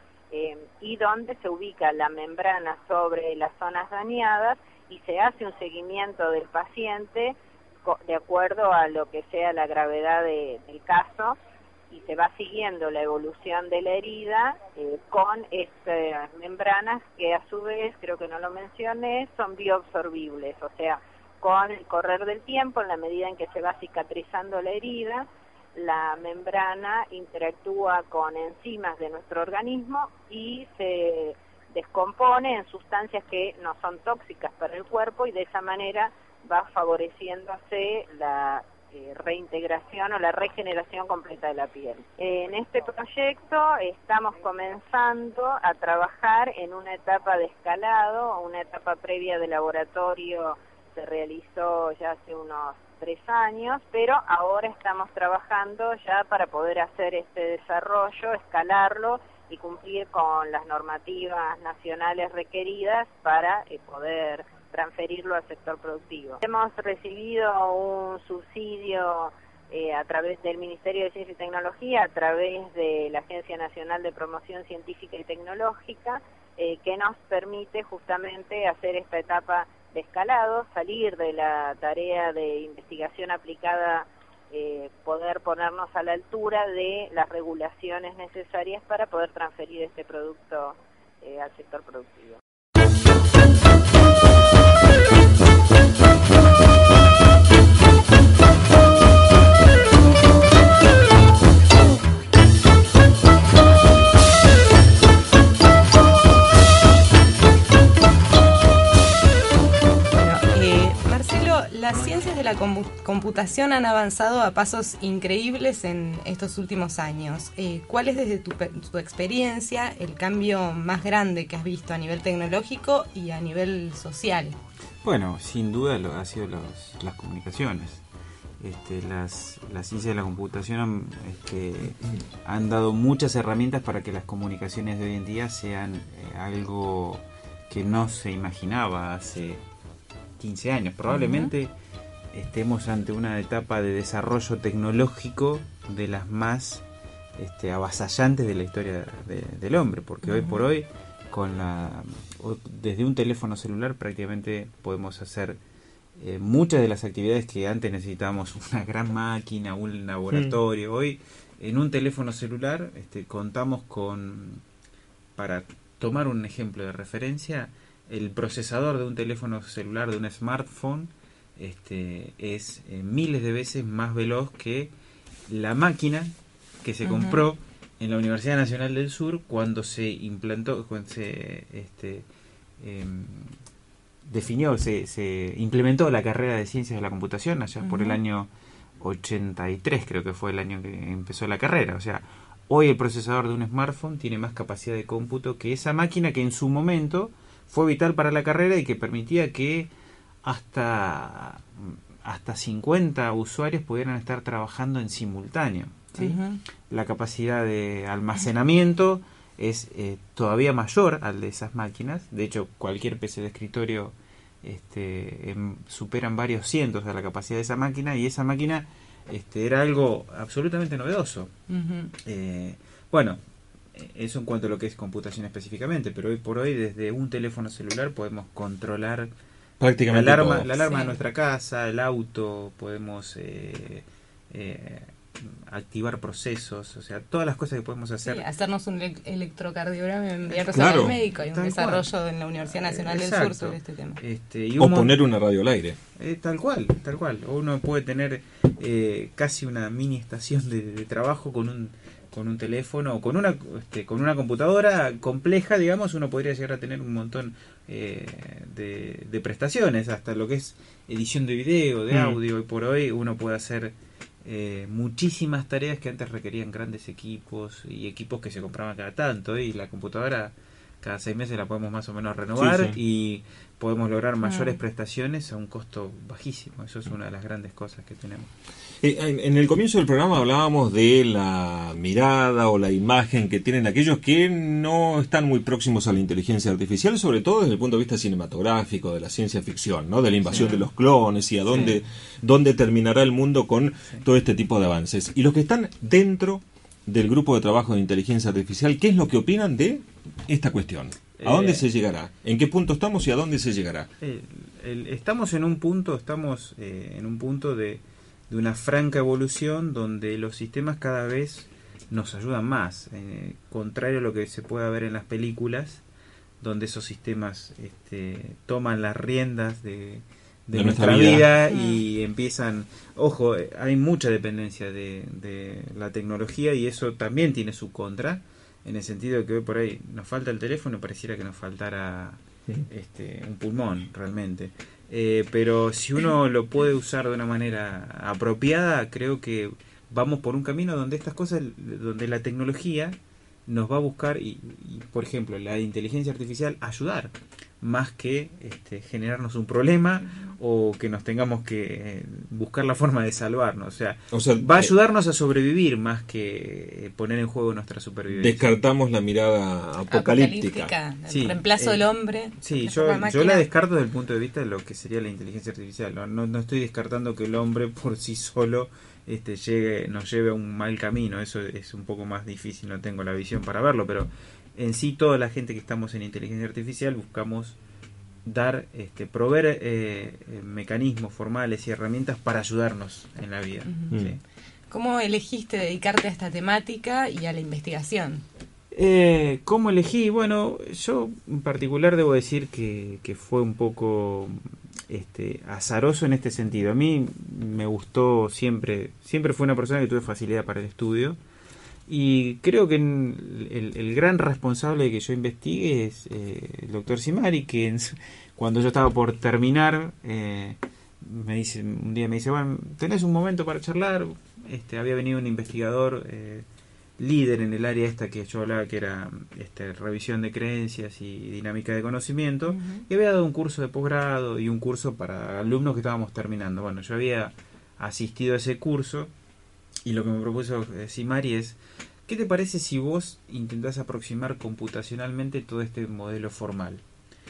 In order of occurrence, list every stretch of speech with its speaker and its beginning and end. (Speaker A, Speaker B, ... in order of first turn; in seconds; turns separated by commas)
Speaker A: 0.3-11.4, Speaker A: 11.9-92.4, Speaker B: 110.1-124.6, Speaker C: 125.0-128.0, Speaker C: 128.6-139.6, Speaker C: 140.4-141.7, Speaker B: 141.1-141.5, Speaker C: 142.3-146.8, Speaker C: 147.4-155.6, Speaker B: 150.2-150.6, Speaker C: 156.2-164.6, Speaker D: 160.3-160.6, Speaker C: 165.4-174.9, Speaker C: 175.5-182.3, Speaker B: 177.0-177.4, Speaker C: 182.8-183.5, Speaker C: 184.3-188.5, Speaker B: 187.8-188.2, Speaker C: 189.0-199.9, Speaker C: 200.4-221.5, Speaker B: 206.2-206.6, Speaker B: 221.7-222.1, Speaker C: 222.2-223.4, Speaker C: 223.9-229.3, Speaker D: 229.8-230.7, Speaker C: 230.1-238.4, Speaker B: 230.8-231.2, Speaker B: 238.2-244.2, Speaker C: 240.5-242.1, Speaker D: 240.7-241.2, Speaker C: 242.7-245.2, Speaker D: 244.8-246.0, Speaker C: 246.2-278.5, Speaker D: 262.1-262.4, Speaker D: 272.6-273.0, Speaker B: 274.4-274.8, Speaker D: 279.0-304.1, Speaker C: 290.5-290.8, Speaker C: 301.4-301.9, Speaker C: 304.2-316.0, Speaker C: 316.6-358.8, Speaker D: 320.7-321.5, Speaker B: 321.7-322.0, Speaker D: 354.3-354.9, Speaker D: 358.3-360.9, Speaker B: 360.1-363.6, Speaker C: 361.3-377.8, Speaker C: 378.4-384.4, Speaker B: 383.9-384.1, Speaker B: 384.9-388.4, Speaker C: 388.9-401.4, Speaker C: 402.1-416.7, Speaker C: 417.2-429.3, Speaker B: 422.7-423.1, Speaker C: 430.1-437.0